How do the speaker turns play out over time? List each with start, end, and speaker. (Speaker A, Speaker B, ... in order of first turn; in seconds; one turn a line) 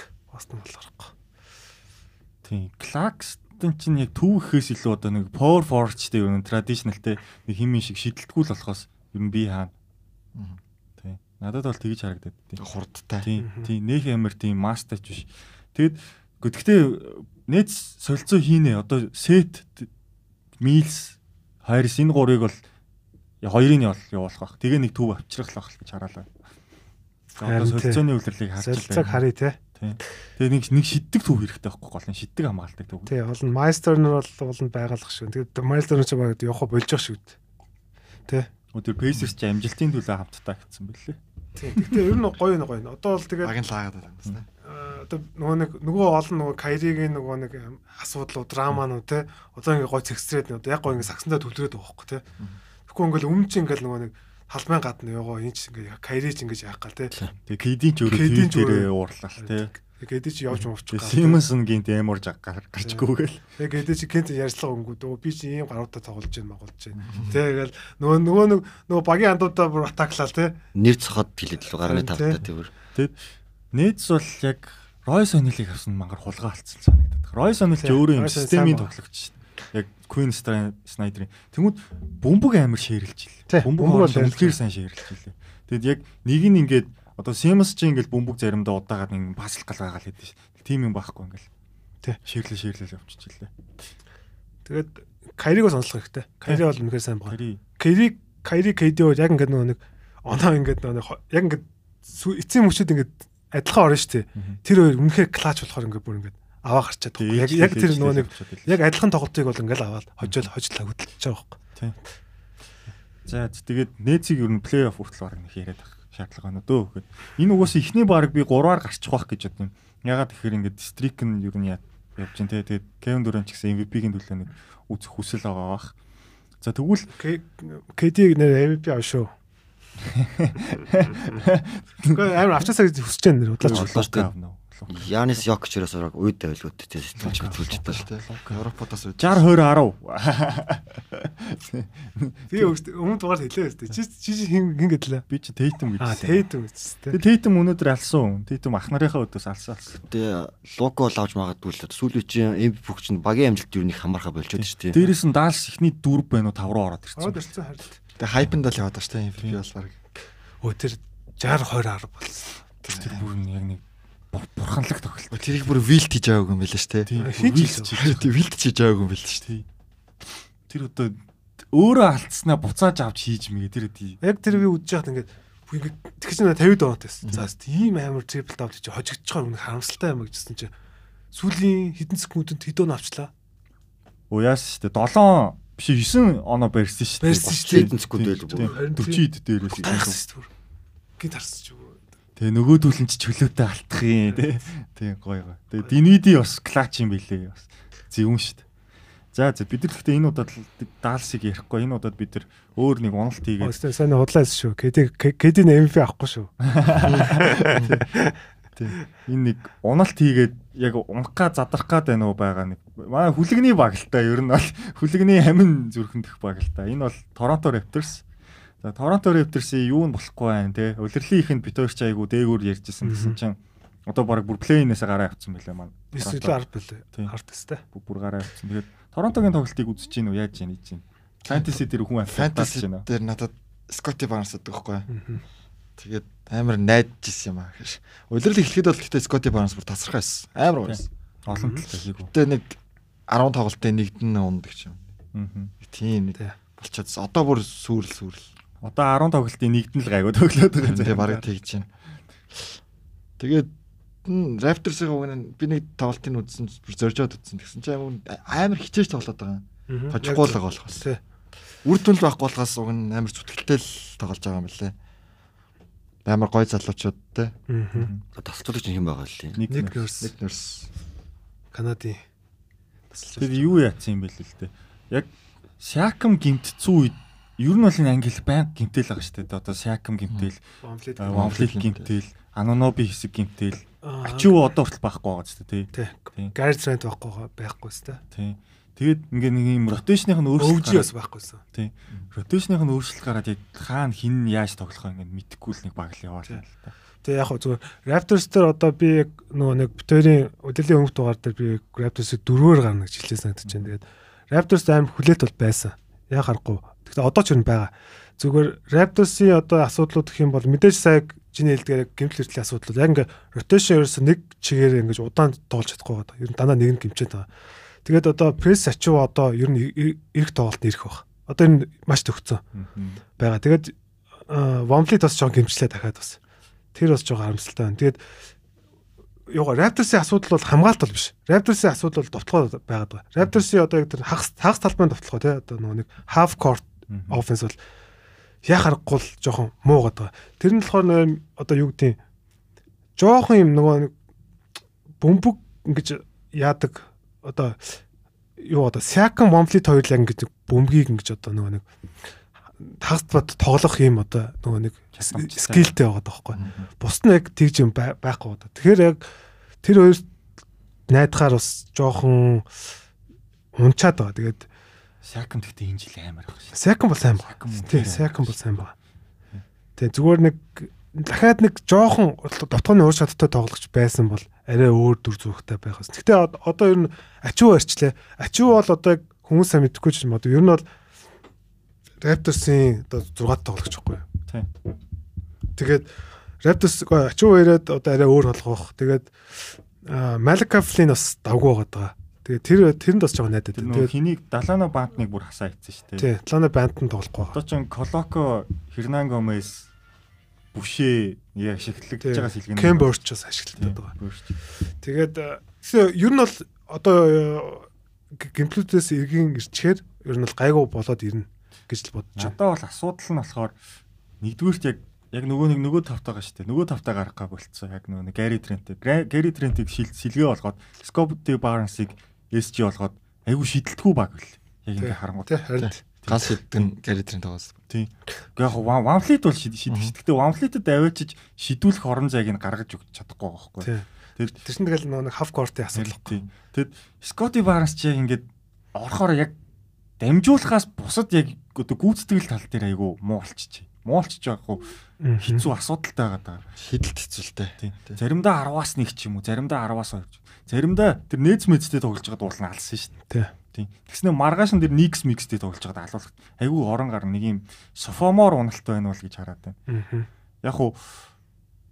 Speaker A: 0.3-1.1
Speaker B: 2.4-9.7
Speaker C: 10.3-10.6
Speaker B: 11.0-12.6
Speaker C: 12.6-13.3
Speaker B: 13.2-19.9
Speaker A: 13.4-13.7
Speaker B: 20.6-22.6
Speaker B: 23.4-26.3
Speaker B: 27.4-29.2
Speaker A: 27.4-28.1
Speaker A: 28.6-29.6
Speaker B: 29.8-33.1
Speaker A: 33.1-37.4
Speaker B: 38.7-41.2
Speaker A: 41.6-43.5
Speaker B: 41.8-42.1
Speaker C: 43.4-44.5
Speaker A: 44.6-52.2
Speaker A: 52.9-57.1
Speaker B: 57.5-59.7
Speaker A: 58.1-61.4
Speaker B: 60.9-63.4
Speaker A: 63.6-70.6
Speaker C: 67.0-67.4
Speaker D: 70.8-72.7
Speaker A: 71.8-72.4
Speaker B: 73.7-91.5
Speaker A: 77.8-78.9
Speaker A: 83.5-84.6
Speaker B: 92.2-93.5
Speaker A: 94.7-111.6
Speaker B: 97.3-97.6
Speaker B: 107.2-108.8
Speaker B: 113.2-125.9
Speaker B: 126.6-127.1
Speaker A: 127.1-129.3
Speaker B: 130.0-132.4
Speaker A: 132.1-133.9
Speaker B: 133.6-135.4
Speaker D: 133.7-134.3
Speaker D: 134.9-138.1
Speaker C: 137.2-139.4
Speaker B: 137.2-138.6
Speaker B: 139.2-142.7
Speaker A: 142.5-145.2
Speaker B: 145.3-146.5
Speaker A: 146.0-147.2
Speaker B: 147.1-150.0
Speaker D: 149.9-155.1
Speaker B: 154.6-157.5
Speaker A: 157.2-158.0
Speaker C: 158.2-160.0
Speaker A: 160.6-162.6
Speaker C: 162.8-163.3
Speaker B: 162.9-165.5
Speaker C: 165.3-167.2
Speaker B: 167.1-168.3
Speaker A: 167.2-167.9
Speaker C: 167.9-169.5
Speaker B: 170.7-174.2
Speaker A: 174.2-180.7
Speaker A: 181.3-183.3
Speaker B: 184.3-190.2
Speaker A: 187.2-187.9
Speaker D: 187.4-188.8
Speaker A: 188.6-190.5
Speaker D: 189.8-190.1
Speaker A: 191.2-192.0
Speaker B: 192.4-198.6
Speaker B: 199.3-203.8
Speaker A: 203.6-206.5
Speaker B: 206.6-208.0
Speaker A: 207.0-208.3
Speaker B: 208.8-218.2
Speaker B: 218.8-226.6
Speaker A: 223.0-223.4
Speaker A: 226.1-227.8
Speaker B: 227.9-233.1
Speaker C: 231.5-231.8
Speaker C: 232.3-235.1
Speaker A: 235.1-235.4
Speaker C: 236.0-241.1
Speaker B: 240.8-242.3
Speaker A: 241.5-241.9
Speaker C: 242.3-242.8
Speaker C: 243.3-245.1
Speaker B: 245.3-245.7
Speaker C: 245.8-248.5
Speaker B: 248.8-251.4
Speaker C: 250.8-251.9
Speaker C: 253.4-253.7
Speaker C: 254.2-261.1
Speaker A: 259.9-261.2
Speaker C: 261.8-264.9
Speaker C: 266.2-267.5
Speaker A: 267.7-268.1
Speaker B: 267.9-268.2
Speaker D: 268.4-269.6
Speaker B: 269.6-270.1
Speaker A: 269.7-270.3
Speaker C: 270.2-270.9
Speaker A: 271.7-272.2
Speaker A: 273.1-273.8
Speaker B: 273.4-280.6
Speaker A: 280.8-281.6
Speaker B: 281.2-286.5
Speaker C: 281.3-282.1
Speaker A: 284.0-284.6
Speaker A: 285.9-288.2
Speaker B: 288.3-291.1
Speaker A: 290.6-291.6
Speaker B: 291.7-296.9
Speaker A: 297.2-317.5
Speaker B: 303.7-303.9
Speaker A: 318.1-322.6
Speaker B: 322.7-323.2
Speaker A: 323.4-323.9
Speaker A: 324.5-326.4
Speaker A: 326.9-328.2
Speaker A: 329.5-337.8
Speaker B: 337.1-337.4
Speaker A: 338.6-342.2
Speaker A: 343.2-344.1
Speaker A: 345.2-348.0
Speaker A: 348.6-351.9
Speaker A: 352.8-359.2
Speaker B: 355.1-356.0
Speaker C: 356.5-356.9
Speaker A: 359.8-360.3
Speaker A: 361.1-362.7
Speaker A: 363.8-364.7
Speaker B: 365.2-366.8
Speaker A: 366.7-368.9
Speaker B: 367.4-368.6
Speaker A: 370.0-380.9
Speaker A: 382.2-384.2
Speaker A: 385.8-386.1
Speaker A: 386.6-394.1
Speaker B: 393.8-396.3
Speaker A: 396.2-397.6
Speaker B: 397.5-399.9
Speaker B: 400.7-403.1
Speaker A: 402.2-404.1
Speaker B: 403.8-404.5
Speaker A: 405.0-412.6
Speaker B: 412.4-413.8
Speaker B: 414.4-426.9
Speaker A: 425.0-426.0
Speaker C: 425.8-427.8
Speaker B: 427.9-434.6
Speaker C: 429.9-430.1
Speaker A: 433.8-436.4
Speaker B: 435.9-439.6
Speaker B: 440.2-446.6
Speaker A: 445.2-445.7
Speaker C: 446.8-448.2
Speaker B: 447.8-453.1
Speaker B: 453.7-459.8
Speaker A: 459.9-460.3
Speaker B: 460.6-461.2